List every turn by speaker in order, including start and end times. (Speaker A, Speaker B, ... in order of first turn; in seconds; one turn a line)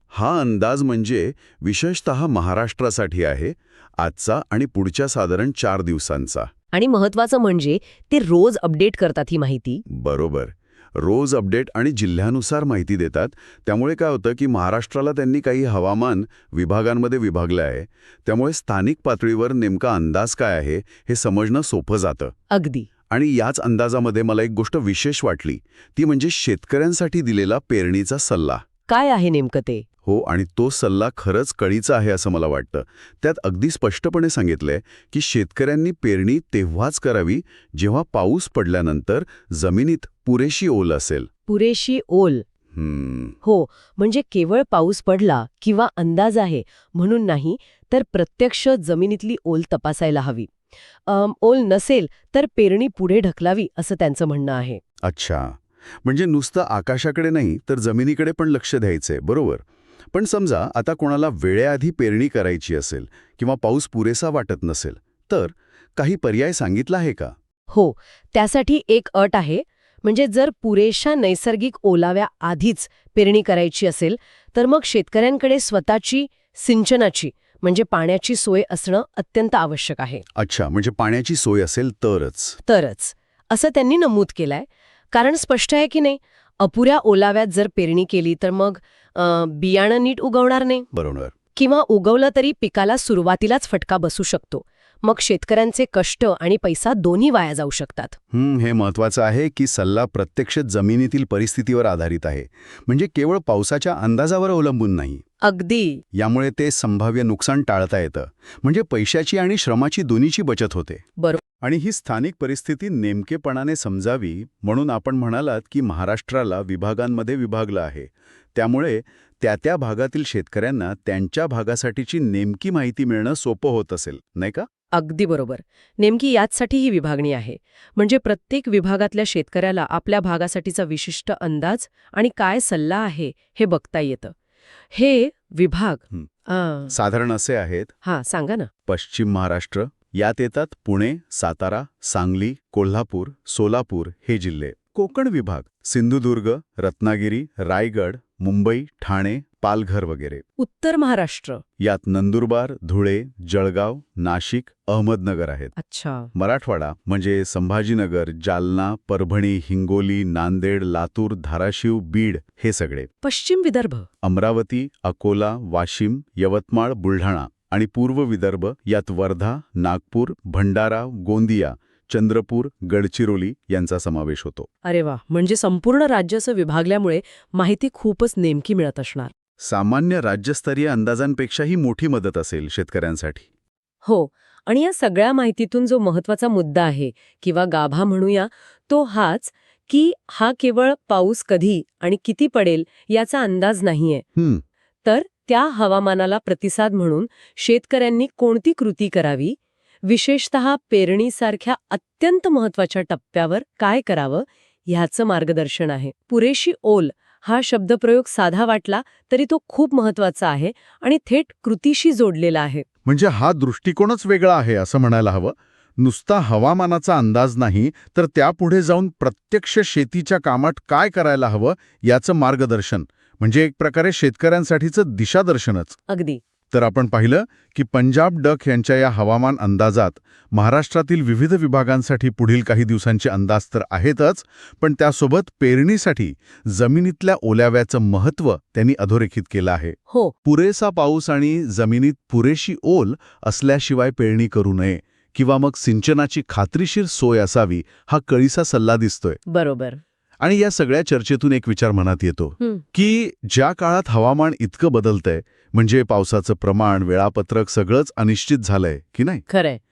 Speaker A: 0.1-6.5
Speaker B: 6.7-9.8
Speaker A: 9.9-22.3
Speaker B: 22.5-22.9
Speaker A: 23.1-28.6
Speaker B: 28.9-29.9
Speaker A: 30.0-41.3
Speaker B: 41.5-42.4
Speaker A: 42.7-43.4
Speaker B: 43.4-50.5
Speaker B: 51.0-54.8
Speaker A: 55.0-67.3
Speaker B: 67.7-80.2
Speaker A: 80.3-82.6
Speaker B: 82.7-90.9
Speaker A: 90.9-91.3
Speaker B: 91.5-98.2
Speaker A: 98.3-105.2
Speaker B: 105.4-106.0
Speaker A: 106.1-111.0
Speaker A: 111.6-124.7
Speaker B: 124.9-134.3
Speaker B: 134.9-136.9
Speaker A: 136.9-137.9
Speaker B: 138.0-138.7
Speaker A: 138.8-150.4
Speaker B: 150.6-151.6
Speaker A: 151.8-155.7
Speaker B: 155.8-156.3
Speaker A: 156.3-163.1
Speaker B: 163.2-164.1
Speaker A: 164.2-174.7
Speaker B: 174.8-179.3
Speaker A: 179.6-183.5
Speaker B: 184.0-194.2
Speaker A: 194.3-194.6
Speaker B: 195.0-212.8
Speaker A: 213.0-226.0
Speaker B: 226.1-226.4
Speaker A: 226.7-249.4
Speaker B: 240.1-240.3
Speaker B: 249.5-250.0
Speaker A: 250.4-259.4
Speaker B: 259.5-259.8